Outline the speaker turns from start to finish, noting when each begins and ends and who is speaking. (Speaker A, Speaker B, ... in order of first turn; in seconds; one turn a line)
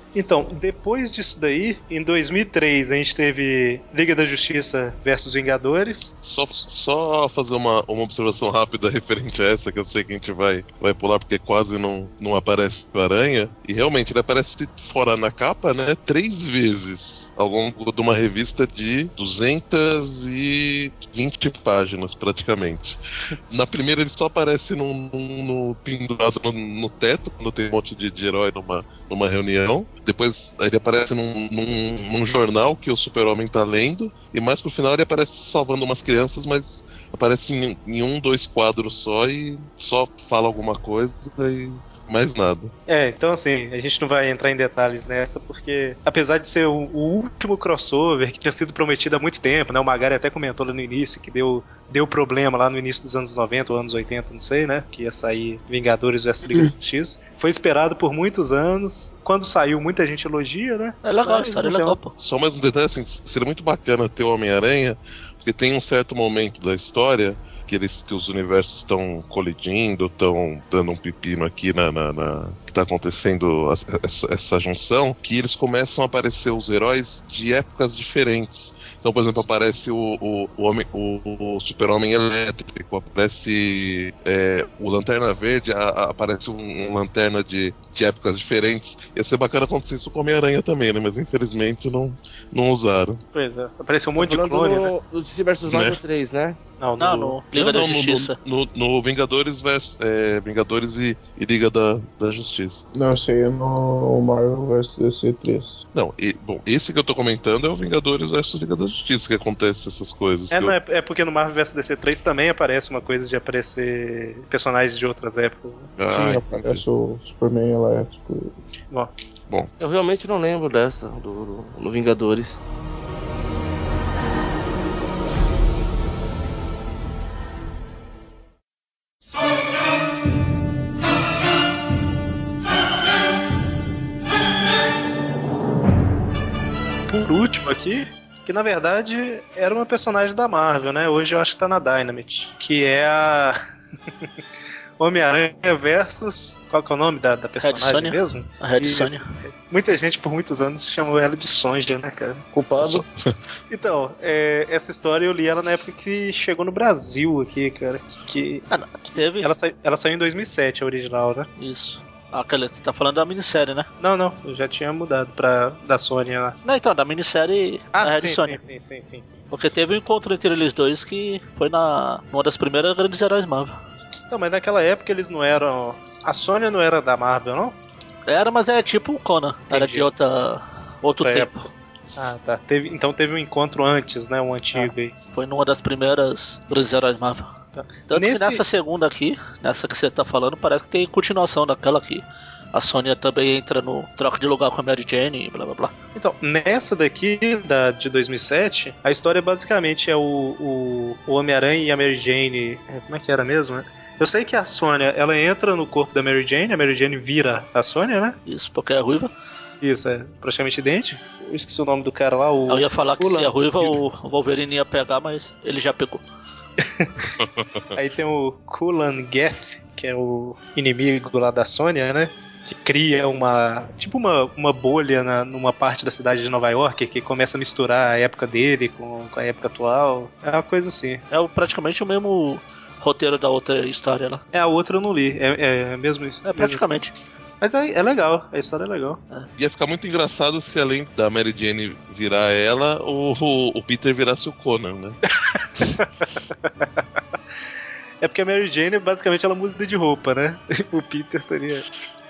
Speaker A: 0.1-6.2
Speaker B: 6.2-23.0
Speaker B: 23.5-42.7
Speaker A: 42.9-62.0
Speaker C: 61.0-62.1
Speaker B: 62.2-93.2
Speaker A: 93.3-94.9
Speaker D: 94.2-96.6
Speaker B: 95.7-96.0
Speaker A: 96.8-97.4
Speaker C: 97.0-98.4
Speaker B: 97.5-102.8
Speaker E: 102.9-105.8
Speaker B: 105.9-110.8
Speaker A: 110.5-115.9
Speaker B: 116.0-116.8
Speaker E: 116.1-118.6
Speaker D: 119.8-122.6
Speaker A: 137.1-143.6
Speaker A: 145.0-152.4
Speaker C: 147.6-149.3
Speaker D: 152.5-153.1
Speaker B: 152.8-153.3
Speaker A: 153.7-158.7
Speaker C: 158.7-159.5
Speaker A: 159.4-161.5
Speaker C: 161.6-163.9
Speaker A: 164.0-166.6
Speaker C: 166.7-168.6
Speaker A: 167.9-169.4
Speaker C: 169.5-173.8
Speaker A: 174.3-177.8
Speaker C: 178.3-181.7
Speaker A: 179.7-180.1
Speaker A: 181.2-181.5
Speaker A: 182.2-185.2
Speaker C: 184.8-187.5
Speaker A: 187.8-188.6
Speaker C: 188.1-195.9
Speaker A: 196.2-208.4
Speaker C: 208.5-209.3
Speaker A: 209.8-213.6
Speaker C: 212.7-216.2
Speaker A: 216.8-217.1
Speaker B: 217.4-217.7
Speaker A: 217.9-231.2
Speaker C: 231.3-234.4
Speaker A: 234.5-236.9
Speaker C: 236.4-237.1
Speaker A: 237.6-239.2
Speaker B: 239.6-245.2
Speaker A: 245.3-246.1
Speaker A: 246.6-247.0
Speaker A: 248.2-251.9